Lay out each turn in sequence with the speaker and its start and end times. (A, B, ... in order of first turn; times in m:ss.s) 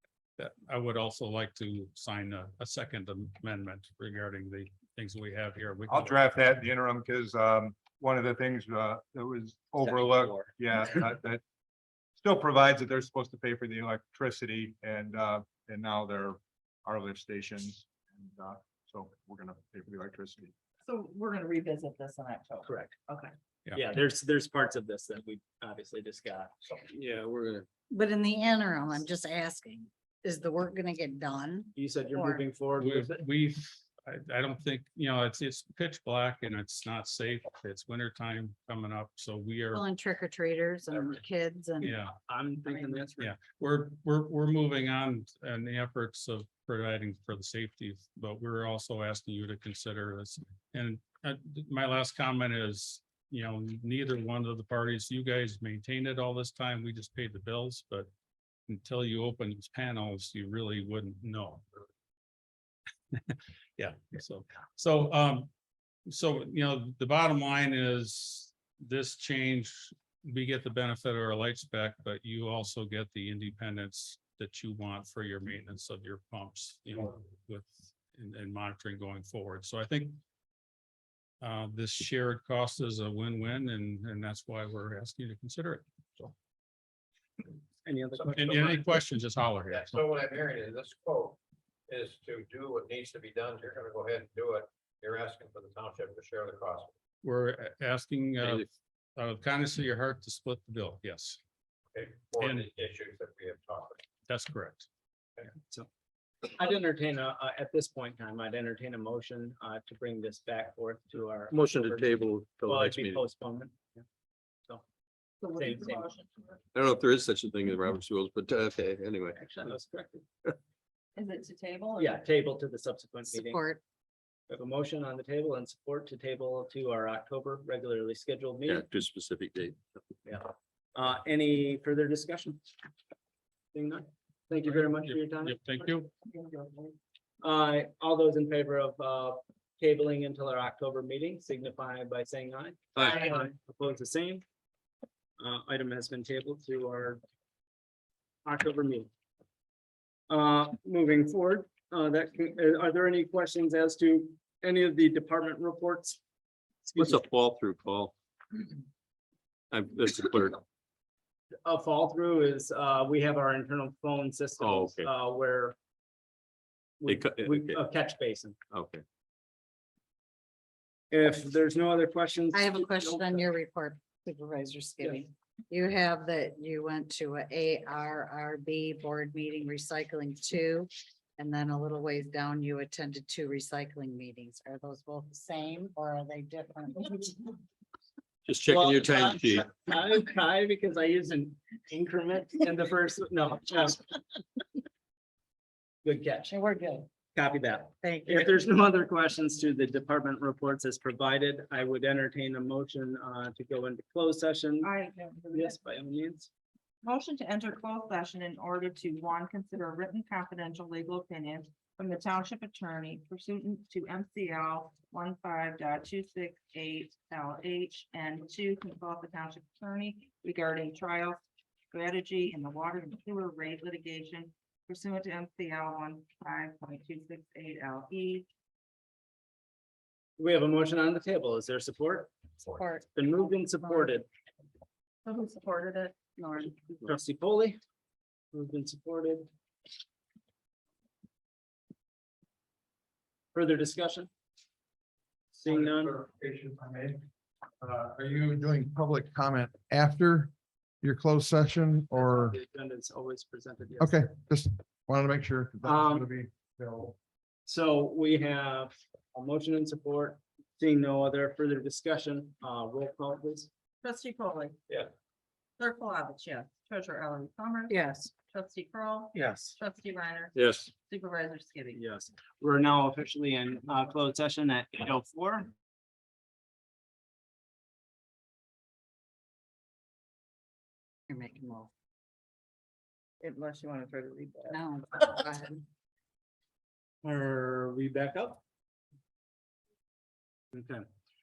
0:00.4-0:06.2 A
0:05.9-0:11.4 B
0:12.2-0:20.5 B
0:20.8-0:23.3 C
0:22.6-0:23.0 D
0:23.7-0:26.5 D
0:26.9-0:27.6 E
0:27.9-0:32.4 F
0:31.7-0:33.1 D
0:32.8-0:39.8 A
0:39.7-0:41.9 F
0:40.9-0:41.2 D
0:41.8-0:42.1 A
0:42.2-0:43.4 D
0:43.2-0:58.1 A
0:58.7-1:01.6 A
1:03.1-1:05.5 A
1:06.1-1:20.2 A
1:21.4-1:26.3 A
1:27.8-1:28.5 D
1:28.3-1:30.0 A
1:29.9-1:31.4 G
1:31.9-1:36.9 G
1:37.2-1:41.4 A
1:41.9-1:44.0 G
1:42.4-1:42.7 A
1:44.3-1:44.9 A
1:46.5-1:54.0 D
1:51.5-1:53.2 E
1:55.4-1:56.6 C
1:55.6-1:56.1 D
1:56.7-1:59.4 E
1:59.4-2:00.2 D
2:01.1-2:02.2 C
2:02.0-2:03.6 D
2:03.3-2:03.8 F
2:04.5-2:08.8 D
2:08.7-2:09.8 E
2:10.2-2:12.6 D
2:13.7-2:15.6 D
2:14.7-2:16.1 A
2:16.2-2:17.0 C
2:17.4-2:24.4 D
2:25.4-2:27.2 D
2:28.4-2:29.1 D
2:30.3-2:36.2 D
2:36.9-2:38.1 E
2:39.7-2:40.6 E
2:41.6-2:45.8 D
2:44.6-2:45.1 E
2:47.0-2:48.6 D
2:47.1-2:47.8 E
2:48.7-2:49.0 E
2:51.1-2:53.4 D
2:52.5-3:07.3 F
3:08.5-3:09.6 E
3:08.7-3:14.0 D
3:16.0-3:16.5 D
3:16.5-3:17.1 F
3:17.3-3:24.9 D
3:18.0-3:18.5 F
3:24.8-3:25.7 C
3:25.5-3:26.5 D
3:27.0-3:48.5 C
3:50.4-3:52.3 D
3:52.6-3:54.1 F
3:53.1-3:54.2 D
3:55.2-3:56.7 C
3:57.0-3:57.8 D
3:58.5-3:59.5 D
4:03.5-4:04.3 D
4:05.5-4:06.2 D
4:05.9-4:07.2 H
4:07.8-4:12.6 H
4:12.1-4:14.2 D
4:14.0-4:17.1 H
4:15.8-4:16.3 D
4:17.6-4:23.7 D
4:24.0-4:24.8 C
4:25.8-4:27.9 C
4:27.9-4:28.3 F
4:28.4-4:32.0 C
4:31.9-4:35.7 D
4:41.3-4:41.9 F
4:43.4-4:44.8 C
4:44.7-4:45.8 F
4:47.2-4:48.6 D
4:50.7-4:51.0 D